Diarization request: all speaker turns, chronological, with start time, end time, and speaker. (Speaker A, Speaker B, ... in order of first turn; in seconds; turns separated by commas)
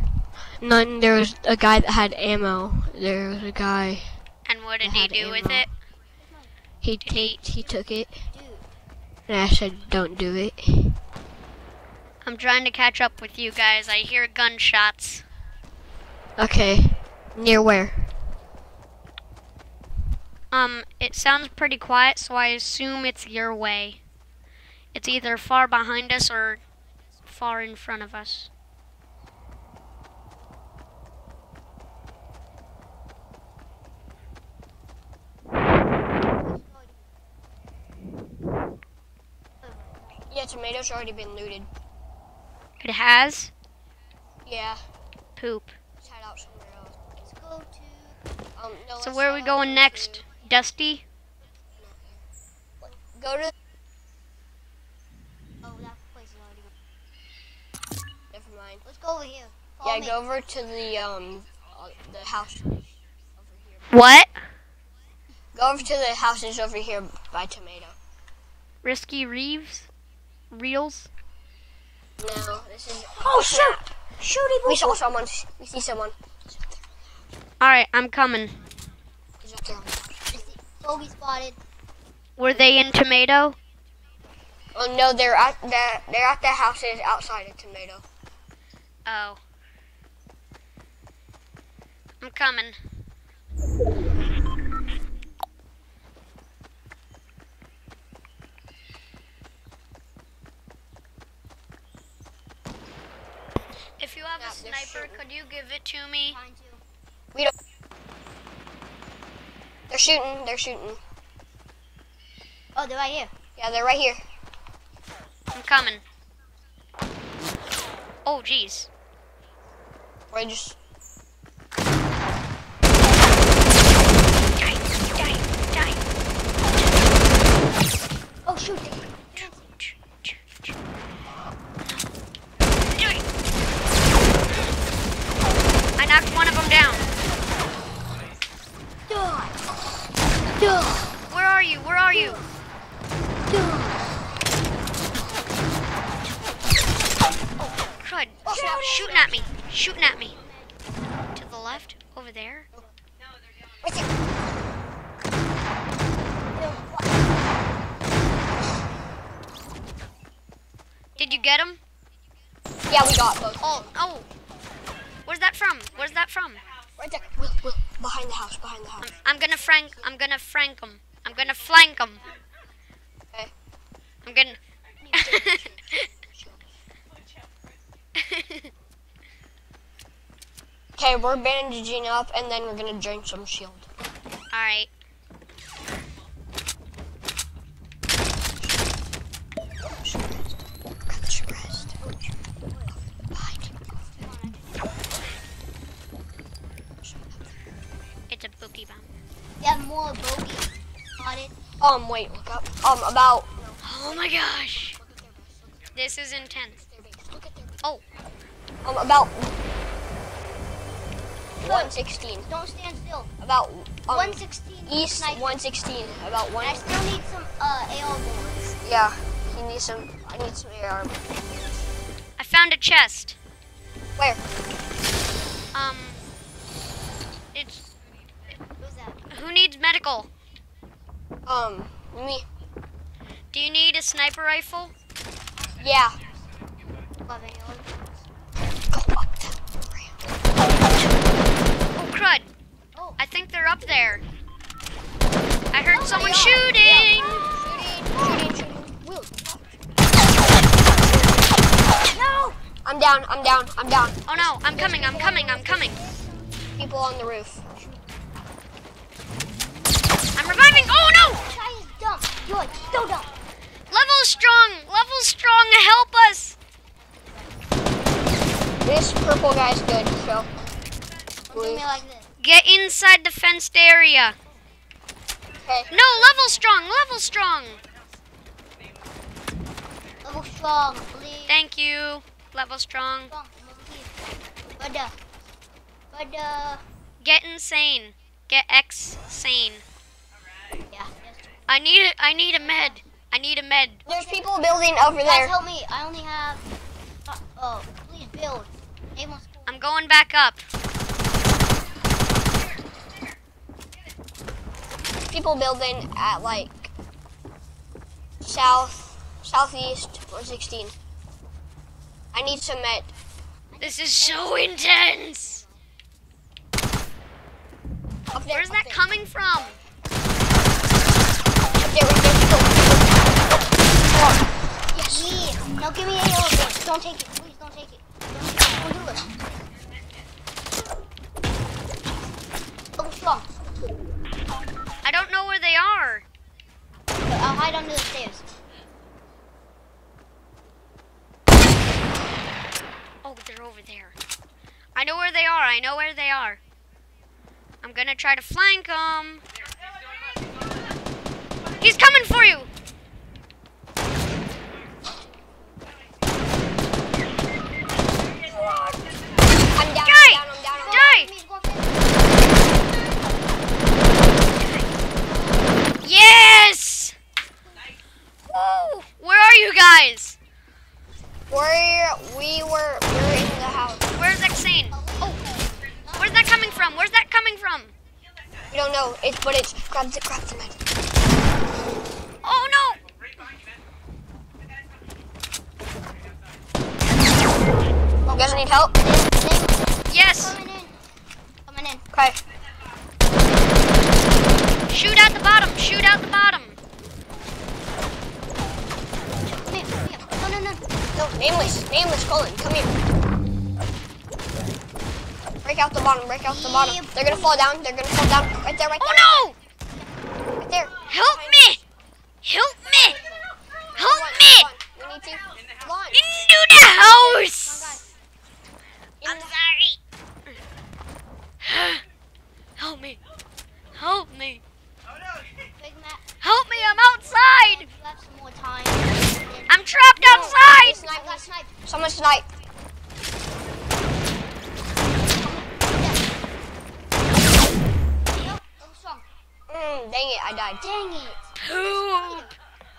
Speaker A: 0.6-4.2, Speaker B: 4.4-5.7, Speaker A: 4.8-5.7, Speaker C: 6.2-6.5, Speaker A: 6.8-8.2, Speaker B: 7.0-7.4, Speaker C: 7.5-7.8, Speaker C: 8.3-8.7, Speaker A: 9.3-11.0, Speaker B: 12.2-15.2, Speaker A: 16.4-18.1, Speaker B: 20.5-24.0, Speaker B: 24.9-26.6, Speaker B: 27.2-28.5, Speaker C: 36.4-37.0, Speaker C: 39.6-40.1, Speaker A: 40.3-41.7, Speaker B: 42.8-43.5, Speaker A: 44.5-44.8, Speaker B: 45.4-45.7, Speaker A: 46.0-47.0, Speaker C: 47.2-48.2, Speaker A: 48.5-50.2, Speaker B: 49.0-51.0, Speaker A: 51.8-52.2, Speaker A: 53.1-53.5, Speaker C: 55.6-56.7, Speaker A: 58.3-58.8, Speaker C: 58.8-60.2, Speaker A: 59.8-63.9, Speaker B: 63.9-64.4, Speaker A: 65.5-68.0, Speaker B: 68.8-69.9, Speaker B: 70.5-71.1, Speaker A: 72.2-73.8, Speaker C: 73.2-75.0, Speaker A: 74.7-76.8, Speaker B: 77.6-78.6, Speaker A: 79.4-80.5, Speaker C: 80.3-81.6, Speaker B: 82.4-83.6, Speaker A: 82.5-82.7, Speaker A: 84.7-88.0, Speaker B: 89.0-89.4, Speaker B: 92.2-92.9, Speaker B: 104.0-106.4, Speaker A: 104.4-105.2, Speaker C: 106.3-106.8, Speaker A: 109.9-111.0, Speaker C: 112.7-113.3, Speaker A: 113.6-114.2, Speaker B: 115.5-116.0, Speaker B: 118.2-118.9, Speaker A: 120.3-120.8, Speaker B: 124.6-126.0, Speaker C: 128.4-129.5, Speaker B: 129.3-130.4, Speaker B: 131.8-132.1, Speaker B: 132.9-133.2, Speaker B: 136.0-137.1, Speaker C: 139.1-139.6, Speaker C: 140.5-141.1, Speaker B: 141.3-142.4, Speaker C: 142.1-142.5, Speaker C: 143.5-144.0, Speaker B: 148.0-150.4, Speaker A: 148.4-149.1, Speaker C: 148.4-149.3, Speaker C: 150.4-150.7, Speaker B: 151.3-152.7, Speaker A: 153.8-154.1, Speaker C: 156.5-157.2, Speaker B: 161.2-161.8, Speaker C: 161.2-161.5, Speaker A: 162.9-163.9, Speaker B: 163.6-164.2, Speaker B: 165.2-166.6, Speaker A: 167.0-169.1, Speaker B: 169.0-172.2, Speaker B: 174.2-174.6, Speaker C: 175.0-175.5, Speaker B: 175.1-176.1, Speaker A: 175.1-176.7, Speaker B: 178.2-178.7, Speaker A: 181.0-183.9, Speaker B: 184.5-184.9, Speaker A: 189.8-192.0, Speaker C: 191.8-193.0, Speaker A: 193.3-194.0, Speaker C: 194.2-195.0, Speaker A: 197.0-197.5, Speaker B: 198.3-199.1, Speaker C: 199.6-201.6, Speaker A: 201.8-205.8, Speaker B: 203.8-205.0, Speaker B: 205.9-206.8, Speaker A: 206.8-207.8, Speaker A: 208.8-209.6, Speaker A: 211.6-212.5, Speaker C: 211.6-213.3, Speaker A: 213.4-216.9, Speaker C: 214.1-215.5, Speaker C: 216.6-218.8, Speaker A: 218.8-221.2, Speaker B: 222.4-223.4, Speaker A: 224.2-224.4, Speaker B: 225.7-226.2, Speaker B: 227.5-227.9, Speaker C: 228.8-229.2, Speaker B: 229.3-230.3, Speaker A: 231.4-232.4, Speaker B: 233.5-234.9, Speaker A: 235.8-236.2, Speaker C: 237.2-238.2, Speaker A: 238.8-240.3, Speaker B: 241.9-242.5, Speaker B: 243.2-244.2, Speaker B: 245.7-247.5, Speaker A: 245.9-246.7, Speaker C: 246.1-248.5, Speaker A: 247.5-249.6, Speaker C: 252.0-252.6, Speaker A: 252.8-254.5, Speaker B: 254.3-256.0, Speaker C: 254.7-256.4, Speaker A: 256.8-257.6, Speaker C: 257.8-258.0, Speaker B: 260.4-261.4, Speaker C: 261.4-263.3, Speaker B: 263.9-266.6, Speaker C: 267.0-267.6, Speaker A: 268.8-270.5, Speaker C: 271.5-272.3, Speaker A: 271.5-271.8, Speaker B: 272.4-274.4, Speaker A: 275.6-275.9, Speaker B: 275.9-277.8, Speaker C: 280.2-281.6, Speaker B: 281.5-283.3, Speaker C: 283.3-284.2, Speaker C: 284.8-285.1, Speaker C: 286.1-286.8, Speaker B: 287.2-289.8, Speaker C: 290.9-291.4, Speaker B: 291.7-294.0, Speaker C: 292.6-293.0, Speaker A: 294.1-295.5, Speaker C: 294.1-294.6, Speaker C: 295.2-296.6, Speaker C: 297.2-299.8, Speaker B: 299.7-300.6, Speaker A: 305.3-306.9, Speaker A: 308.4-310.9, Speaker A: 312.3-313.1, Speaker C: 313.7-315.8, Speaker B: 313.8-315.6, Speaker A: 318.3-319.0, Speaker B: 318.5-319.8, Speaker A: 321.8-325.3, Speaker C: 325.0-329.5, Speaker C: 332.9-333.5, Speaker B: 335.0-336.2, Speaker C: 337.2-338.4, Speaker B: 343.2-344.1, Speaker B: 344.9-346.6, Speaker B: 347.8-349.4, Speaker B: 351.8-352.7, Speaker A: 359.7-361.1, Speaker B: 360.0-361.3, Speaker C: 360.7-362.6, Speaker B: 364.6-364.9, Speaker C: 365.1-366.0, Speaker B: 366.0-367.1, Speaker B: 368.5-370.4, Speaker A: 371.5-374.1, Speaker B: 374.1-375.4, Speaker C: 374.9-376.9, Speaker B: 376.2-377.9, Speaker A: 378.7-380.8, Speaker B: 382.4-383.0, Speaker C: 388.2-391.0, Speaker A: 388.3-388.9, Speaker B: 390.1-390.6, Speaker C: 391.6-392.0, Speaker A: 392.1-392.4, Speaker B: 394.9-396.8, Speaker C: 399.4-400.9, Speaker A: 401.1-402.9, Speaker C: 401.4-401.8, Speaker A: 405.6-409.4, Speaker C: 406.5-407.6, Speaker B: 409.0-409.6, Speaker A: 410.6-411.8, Speaker B: 411.1-411.8, Speaker B: 412.4-413.2, Speaker C: 413.0-413.5, Speaker A: 413.9-416.3, Speaker B: 413.9-414.7, Speaker B: 416.1-417.9, Speaker C: 416.9-418.1, Speaker A: 419.2-419.6, Speaker B: 419.2-420.0, Speaker B: 421.6-422.0, Speaker B: 422.8-423.2, Speaker B: 423.9-424.6, Speaker C: 425.7-431.7, Speaker B: 426.4-427.9, Speaker B: 429.7-431.0, Speaker A: 430.2-432.5, Speaker C: 435.4-436.2, Speaker C: 438.3-439.2, Speaker A: 439.7-440.9, Speaker C: 440.8-442.5, Speaker B: 441.6-442.5